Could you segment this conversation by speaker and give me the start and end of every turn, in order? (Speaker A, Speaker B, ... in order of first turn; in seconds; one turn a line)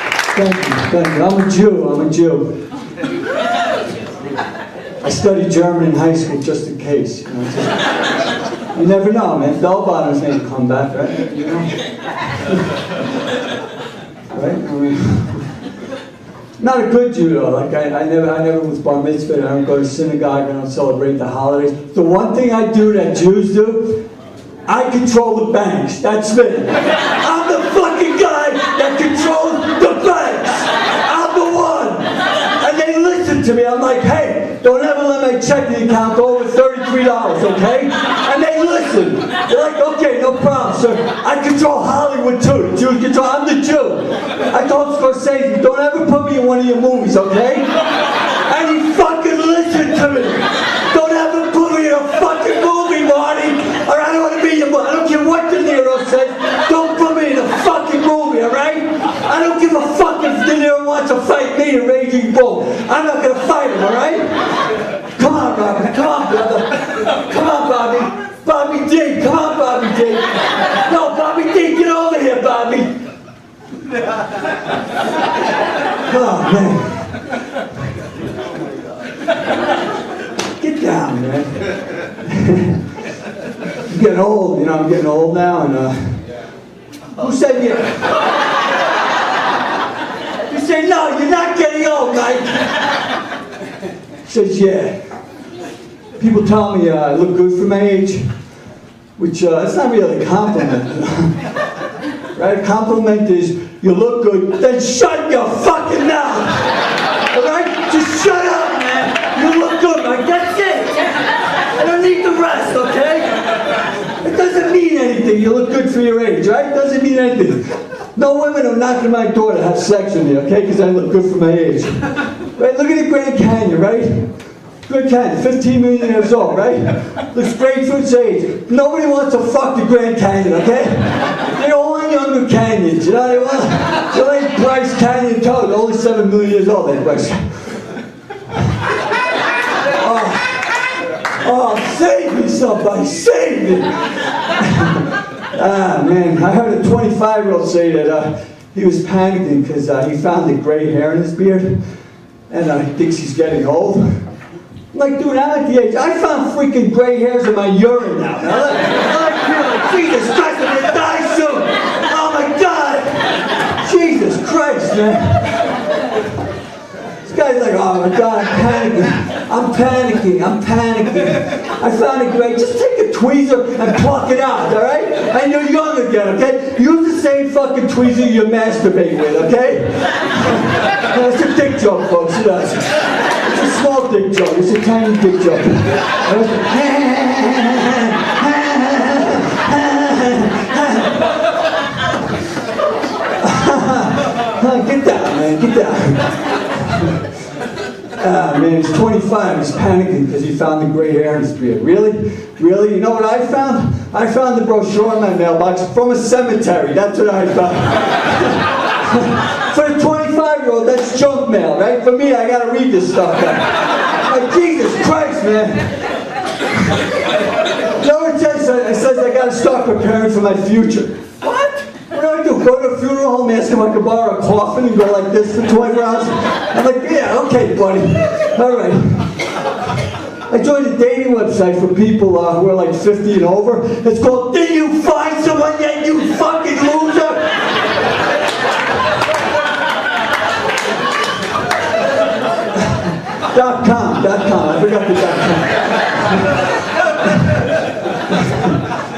Speaker A: 0.3-2.7
Speaker A: 5.0-7.9
Speaker A: 8.7-11.8
Speaker A: 14.3-15.5
Speaker A: 16.6-24.1
Speaker A: 24.7-47.7
Speaker A: 48.4-64.6
Speaker A: 65.2-73.0
Speaker A: 76.1-77.3
Speaker A: 80.6-82.8
Speaker A: 83.9-86.2
Speaker A: 87.2-88.2
Speaker A: 90.5-92.9
Speaker A: 94.2-95.1
Speaker A: 96.2-98.4
Speaker A: 99.2-101.5
Speaker A: 102.3-137.8
Speaker A: 139.9-140.8
Speaker A: 141.4-152.0
Speaker A: 152.5-154.3
Speaker A: 154.9-165.8
Speaker A: 167.2-191.2
Speaker A: 193.4-197.1
Speaker A: 198.2-216.1
Speaker A: 217.9-229.6
Speaker A: 230.5-237.7
Speaker A: 242.8-246.7
Speaker A: 247.2-247.7